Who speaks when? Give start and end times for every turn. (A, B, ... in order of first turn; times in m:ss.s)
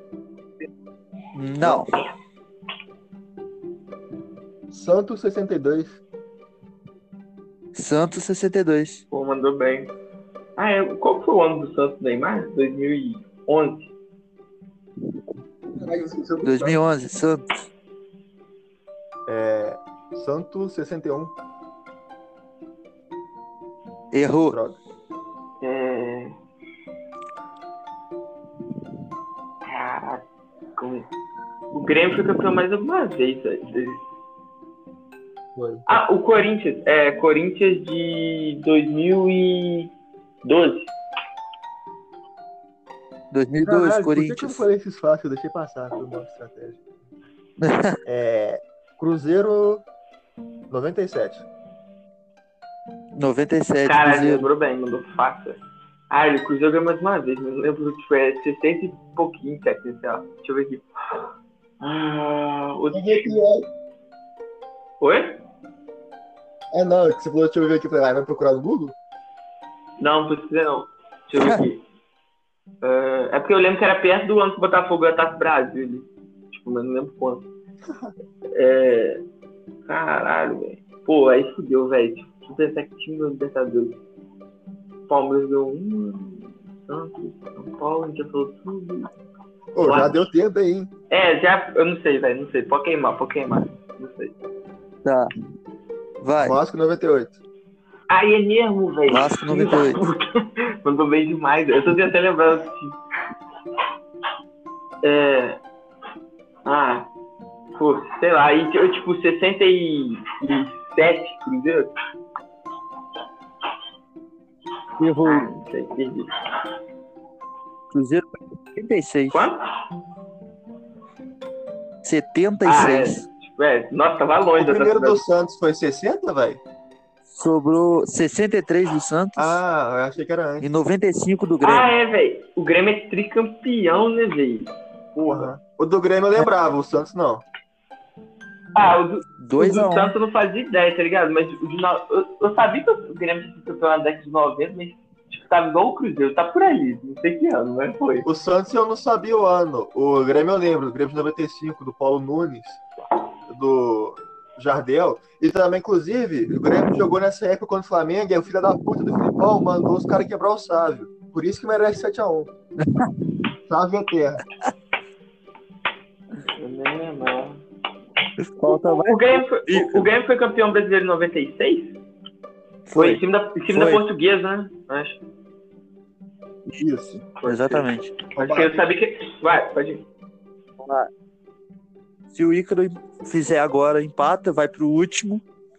0:01.3-0:01.9 A
0:04.7-0:06.0 B
0:07.7-0:09.0 A
0:09.1-0:09.9 C
0:10.6-0:13.9 C
0:15.8-0:16.8 B
0:16.4-0:17.7 A
0:19.3-0:21.3 B
0:24.1-0:24.6 A
0:24.5-0:24.8 B
0:25.6-0:26.3 C
0:29.7-0:30.2 C
0:30.8-0:31.1 C
0:31.7-0:34.0 C
0:35.6-0:35.8 B
0:35.9-0:39.9 C
0:40.4-0:40.9 C
0:43.3-0:44.6 A
0:43.6-0:46.8 B
0:47.6-0:48.0 A
0:48.0-0:49.8 B
0:50.7-0:51.4 B
0:53.2-0:54.5 A
0:53.9-1:00.8 C
1:01.8-1:03.4 C
1:02.9-1:03.7 B
1:05.0-1:05.4 C
1:06.7-1:09.0 B
1:10.0-1:11.8 C
1:11.4-1:11.6 A
1:12.8-1:17.5 C
1:18.6-1:19.2 C
1:19.9-1:24.0 C
1:25.1-1:29.1 C
1:29.8-1:30.9 B
1:29.8-1:30.3 C
1:31.1-1:34.3 C
1:35.0-1:35.3 A
1:36.2-1:36.6 A
1:36.4-1:37.4 B
1:38.1-1:40.2 C
1:39.1-1:40.1 A
1:40.8-1:43.0 C
1:45.0-1:45.6 C
1:46.7-1:47.1 C
1:47.8-1:51.9 C
1:55.0-1:55.5 A
1:55.2-1:56.3 C
1:57.9-1:59.4 A
1:59.3-1:59.6 C
2:02.0-2:03.2 A
2:02.6-2:05.2 C
2:04.6-2:06.6 B
2:07.3-2:09.6 A
2:09.4-2:10.7 B
2:10.6-2:11.9 A
2:11.6-2:15.5 C
2:15.2-2:17.4 B
2:18.8-2:28.3 C
2:19.4-2:20.2 A
2:28.2-2:32.8 B
2:33.5-2:42.5 B
2:43.7-2:44.4 B
2:46.6-2:47.6 C
2:48.4-2:50.1 A
2:48.7-2:51.9 C
2:52.9-2:54.0 A
2:52.9-2:55.2 C
2:56.8-2:57.2 B
2:57.2-2:58.2 A
2:57.4-3:00.0 C
2:58.3-2:58.8 B
3:00.8-3:01.1 A
3:02.3-3:05.4 A